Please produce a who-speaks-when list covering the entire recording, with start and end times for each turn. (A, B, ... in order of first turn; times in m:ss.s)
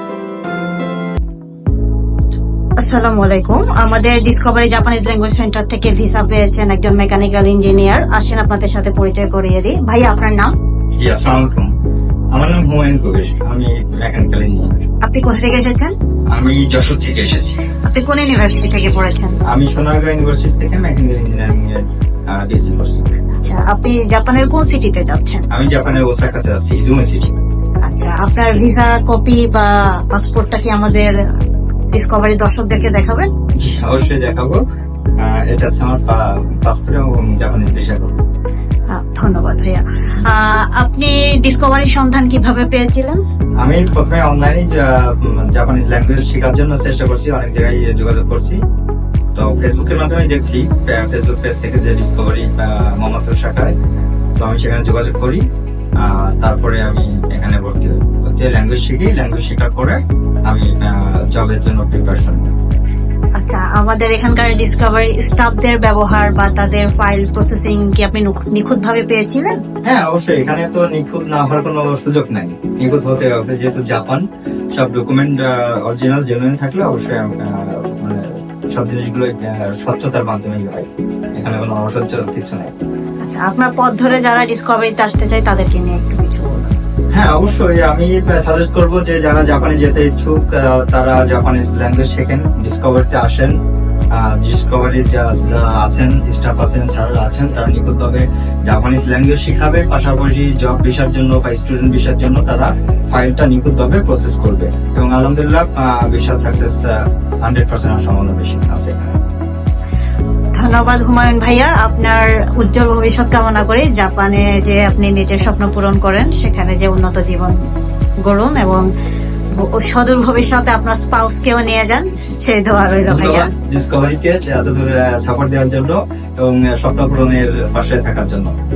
0:02.8-0:10.5 A
0:11.0-0:11.7 B
0:12.3-0:14.8 B
0:15.0-0:15.9 A
0:16.3-0:17.6 B
0:17.8-0:19.4 A
0:19.5-0:23.1 B
0:23.4-0:25.4 A
0:25.5-0:27.3 B
0:27.8-0:31.1 A
0:31.9-0:33.3 A
0:33.6-0:34.6 B
0:35.2-0:38.1 B
0:38.9-0:43.2 A
0:43.6-0:48.6 B
0:49.3-0:53.7 B
0:54.4-0:55.4 B
0:56.0-1:02.5 B
1:03.4-1:09.6 A
1:09.8-1:22.7 B
1:23.2-1:26.7 A
1:27.1-1:33.5 B
1:34.1-1:49.0 B
1:50.6-1:57.6 A
1:58.2-1:58.9 A
1:59.5-2:03.5 A
2:03.0-2:08.5 B